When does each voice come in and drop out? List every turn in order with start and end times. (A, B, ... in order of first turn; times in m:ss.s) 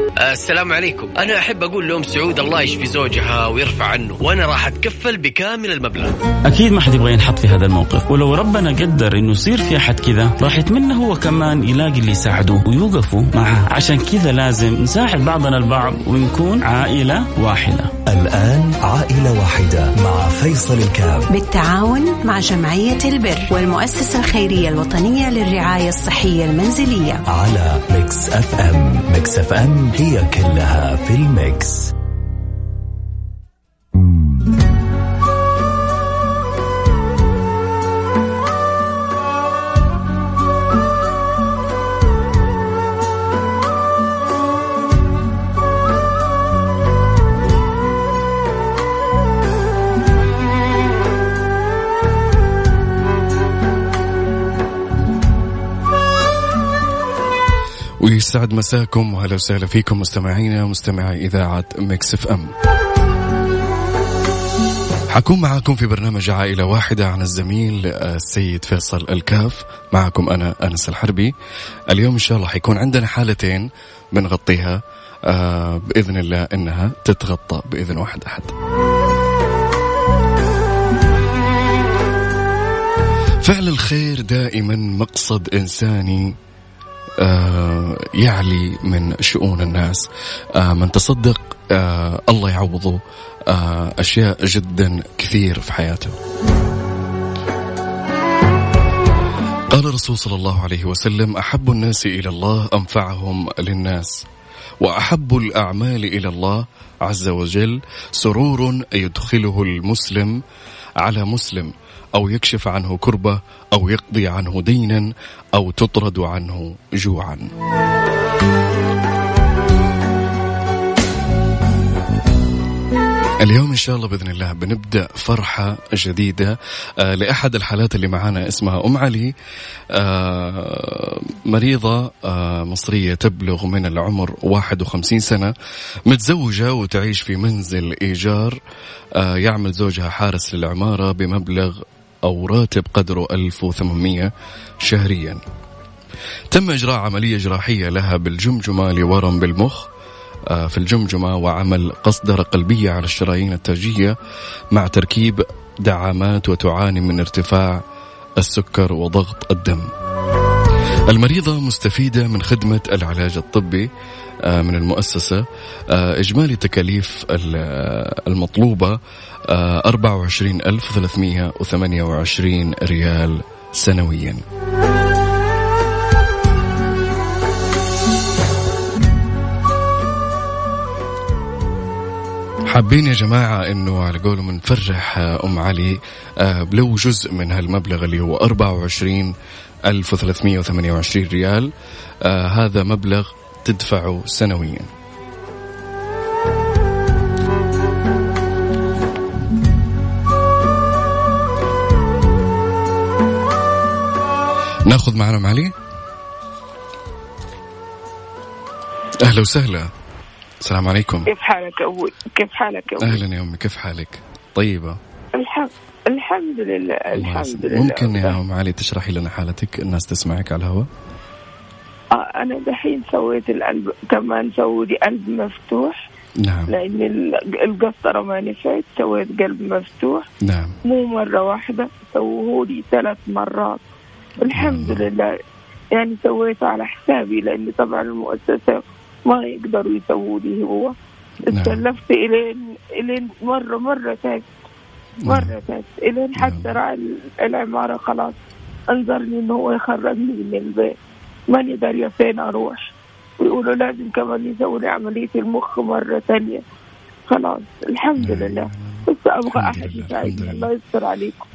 0:00.2-0:06.1 A
0:06.5-0:17.9 B
0:18.1-0:21.3 C
0:21.3-0:27.2 D
0:27.3-0:31.9 C
0:58.0-1:02.5 E
1:05.1-1:11.3 E
1:11.9-1:18.5 E
1:23.4-1:26.3 E
1:27.2-1:36.2 E
1:39.7-1:44.3 E
1:44.8-1:50.4 E
1:51.0-1:57.5 E
2:03.4-2:09.3 E
2:09.9-2:15.5 E
2:16.1-2:18.6 E
2:19.2-2:24.3 E
2:24.8-2:25.4 E
2:26.5-2:29.9 E
2:30.5-2:34.2 E
2:34.7-2:37.8 E
2:38.4-2:39.9 E
2:41.1-2:43.9 E
2:44.4-2:54.4 E
3:02.7-3:09.3 E
3:09.9-3:11.7 E
3:12.2-3:14.9 E
3:24.9-3:25.7 E
3:29.2-3:29.9 E
3:30.6-3:31.3 E
3:31.3-3:33.2 F
3:33.0-3:35.0 E
3:35.4-3:38.4 F
3:37.1-3:40.9 E
3:42.1-3:46.0 F
3:46.4-3:46.7 E
3:46.7-3:50.3 F
3:50.4-3:50.8 E
3:50.8-3:53.8 F
3:54.4-3:55.4 F
3:54.5-3:55.0 E
3:55.9-4:01.0 F
4:01.5-4:01.8 E
4:01.5-4:04.5 F
4:05.2-4:05.5 E
4:05.2-4:08.4 F
4:06.4-4:06.8 E
4:08.9-4:11.0 F
4:11.5-4:12.9 F
4:13.4-4:16.6 F
4:17.3-4:21.5 F
4:18.2-4:20.7 E